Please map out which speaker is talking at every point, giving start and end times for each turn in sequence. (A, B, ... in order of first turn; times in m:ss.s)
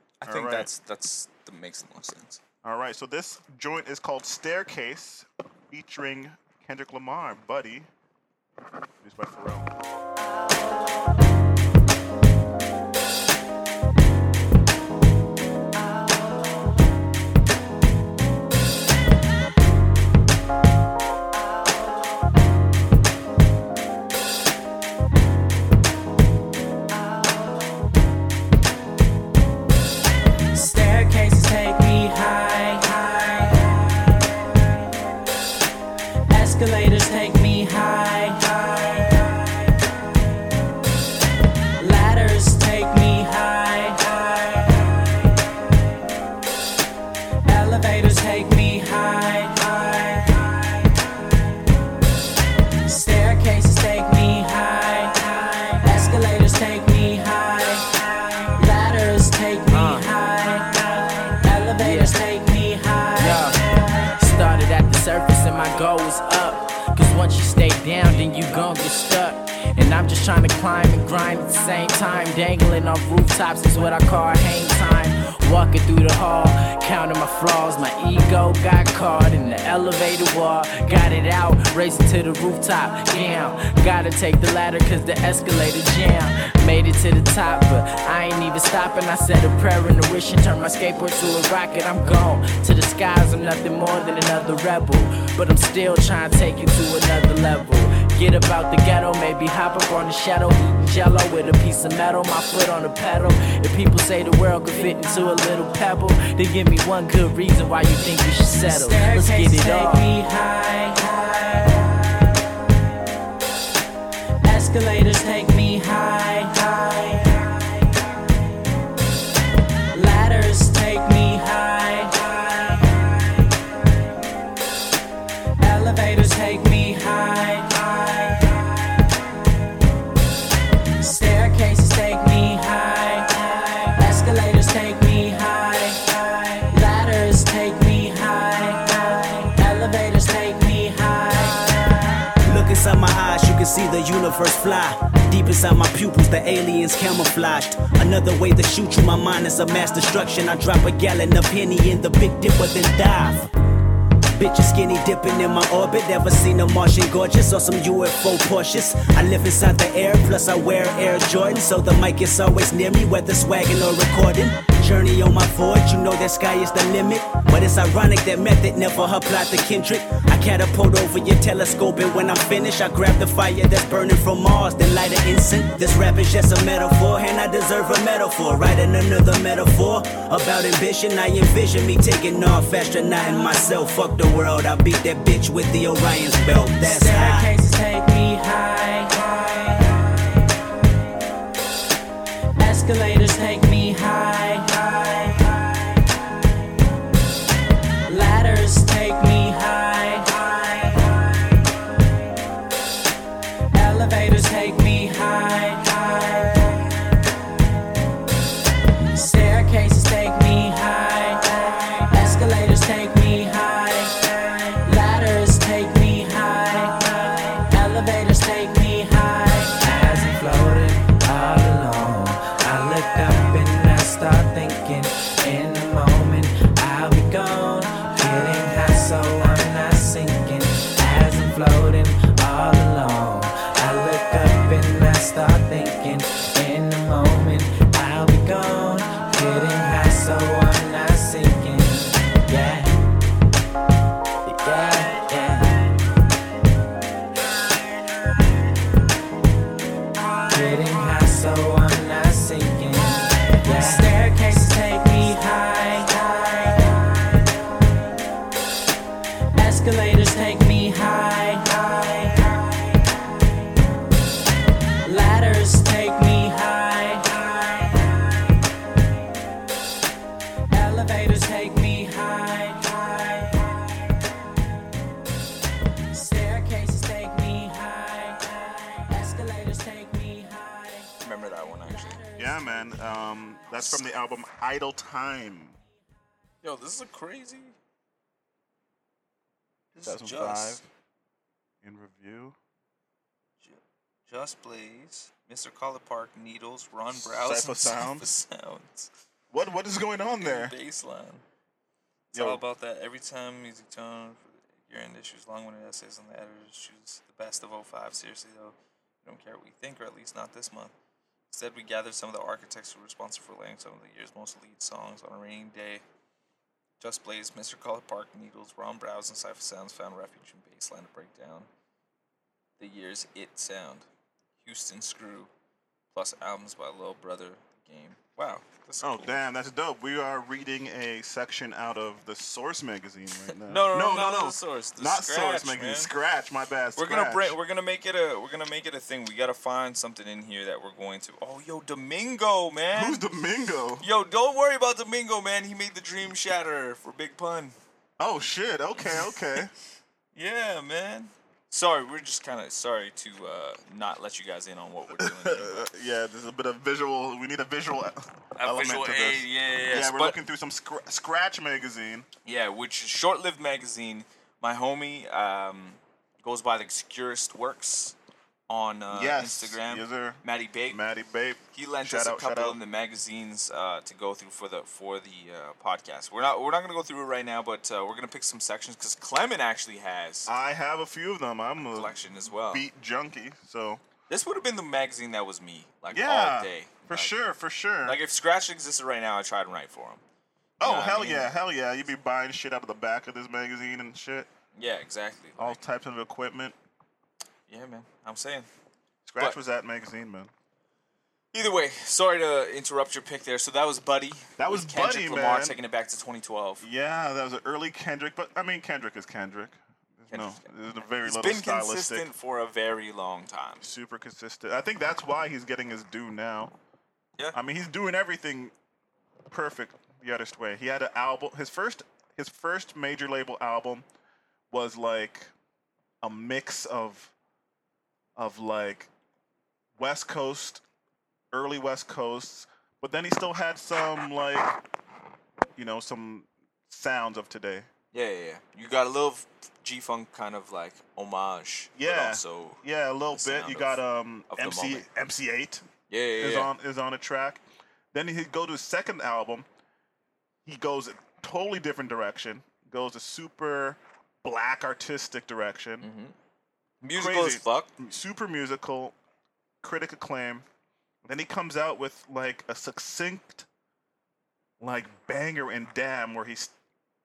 0:00.2-0:02.4 A
0:00.2-0:00.7 B
0:02.6-0:07.9 B
0:09.0-0:09.7 B
0:30.5-0:34.1 C
0:36.3-0:39.6 C
0:41.8-0:45.1 C
0:47.5-0:50.7 C
0:52.8-0:57.9 C
0:58.5-1:04.0 C
0:59.7-1:00.0 D
1:01.8-1:02.1 D
1:03.2-1:03.6 D
1:04.2-1:50.1 D
1:48.6-1:52.1 C
1:54.4-1:58.0 C
1:59.9-2:03.2 C
2:05.6-2:08.7 C
2:11.0-2:22.3 C
2:22.4-2:33.5 E
2:34.4-3:07.5 E
3:06.7-3:10.1 C
3:12.6-3:16.0 C
3:18.1-3:21.4 C
3:23.7-3:26.9 C
3:29.1-3:39.8 C
3:39.8-4:02.9 F
4:04.5-4:05.8 F
4:10.5-4:14.1 F
4:13.5-4:17.4 C
4:19.6-4:23.2 C
4:25.0-4:28.3 C
4:30.7-4:34.2 C
4:36.1-4:41.1 C
4:41.2-4:42.2 A
4:41.8-4:43.0 C
4:42.4-4:45.8 B
4:43.7-4:44.0 A
4:46.6-4:47.8 A
4:49.9-4:50.8 A
4:50.0-4:50.9 B
4:51.8-4:52.6 B
4:53.6-4:59.1 A
4:57.1-4:58.3 B
4:59.5-5:00.8 B
5:00.4-5:01.4 A
5:02.3-5:10.9 A
5:02.3-5:02.6 B
5:11.5-5:16.0 A
5:17.0-5:21.7 A
5:22.8-5:24.1 A
5:24.6-5:25.5 A
5:26.1-5:29.3 A
5:29.0-5:37.6 B
5:33.7-5:36.1 A
5:37.0-5:43.2 A
5:42.9-5:44.1 B
5:44.0-5:47.8 A
5:48.2-5:49.7 B
5:49.0-5:49.3 A
5:50.4-5:55.9 A
5:55.1-6:02.3 B
5:58.6-6:00.4 A
6:02.4-6:08.2 A
6:08.7-6:11.0 A
6:09.1-6:12.8 B
6:11.7-6:20.5 A
6:20.5-6:24.0 B
6:21.9-6:22.9 A
6:24.3-6:27.4 A
6:26.1-6:28.2 B
6:28.0-6:30.2 A
6:30.8-6:34.5 B
6:30.8-6:31.5 A
6:34.8-6:35.8 A
6:35.6-6:36.8 B
6:37.7-6:38.7 A
6:39.3-6:40.5 B
6:41.5-6:46.8 A
6:44.6-6:45.8 B
6:46.8-6:52.3 B
6:50.3-6:53.9 A
6:53.8-6:56.7 B
6:57.5-6:58.7 B
6:59.5-7:04.0 B
7:04.7-7:05.5 B
7:06.2-7:07.3 B
7:08.4-7:09.1 B
7:10.0-7:10.8 B
7:11.5-7:14.8 B
7:15.8-7:17.9 B
7:18.1-7:25.1 A
7:22.0-7:25.9 B
7:26.1-7:26.7 A
7:26.4-7:29.7 B
7:30.6-7:36.1 B
7:36.0-7:36.4 A
7:37.0-7:37.9 A
7:37.1-7:39.1 B
7:39.8-7:40.6 B
7:41.2-7:43.7 B
7:44.8-7:46.7 B